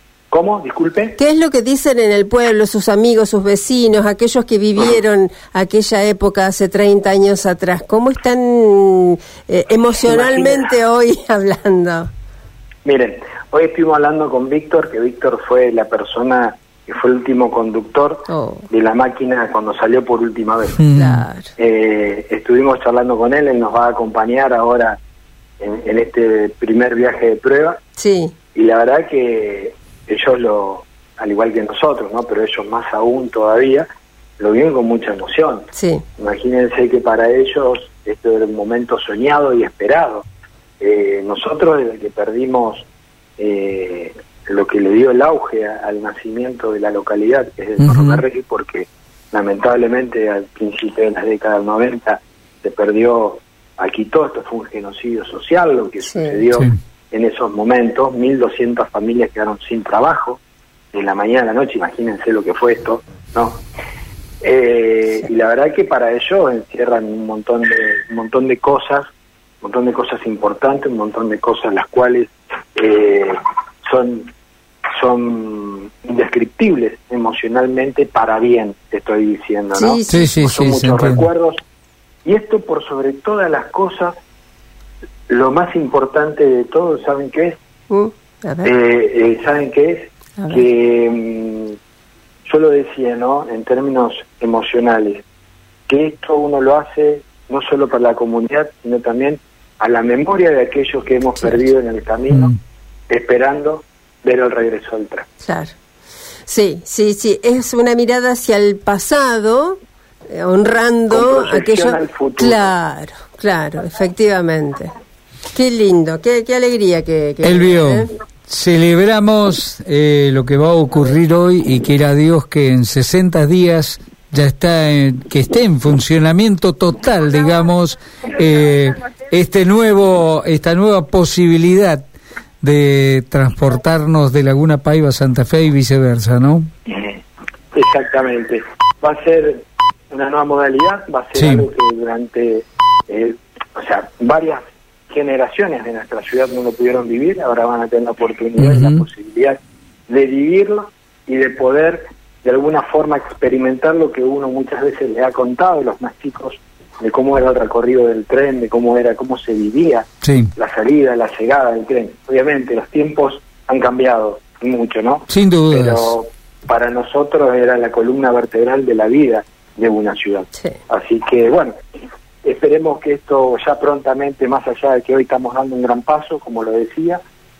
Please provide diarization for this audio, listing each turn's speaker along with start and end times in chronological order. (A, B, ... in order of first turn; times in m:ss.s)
0:00.3-0:01.2 A
0:01.2-0:12.1 B
0:10.0-0:10.7 A
0:12.8-0:20.8 A
0:18.3-0:18.7 B
0:20.8-0:21.2 C
0:21.0-0:21.5 B
0:21.6-0:25.0 A
0:25.6-0:27.8 A
0:28.0-0:28.3 B
0:28.5-0:33.9 A
0:34.4-0:40.2 A
0:35.7-0:36.0 B
0:40.8-0:42.9 A
0:43.4-1:00.4 A
0:47.8-0:48.2 C
0:56.1-0:56.4 B
1:00.9-1:03.6 A
1:04.4-1:09.1 A
1:09.6-1:14.3 A
1:15.0-1:21.6 A
1:19.7-1:20.2 B
1:20.1-1:21.2 C
1:22.2-1:24.2 A
1:25.3-1:27.6 A
1:27.9-1:28.7 B
1:28.6-1:31.8 A
1:30.4-1:30.6 B
1:32.4-1:35.2 A
1:35.9-1:42.5 A
1:41.4-1:41.7 B
1:43.1-1:45.3 A
1:45.4-1:45.7 B
1:46.4-1:49.8 B
1:50.3-1:54.9 B
1:51.1-1:52.7 A
1:55.5-1:58.1 B
1:57.4-2:12.0 C
2:12.6-2:16.7 C
2:17.7-2:51.8 A
2:21.4-2:21.6 C
2:28.6-2:29.0 C
2:40.2-2:40.5 C
2:45.3-2:46.1 C
2:52.4-2:57.2 A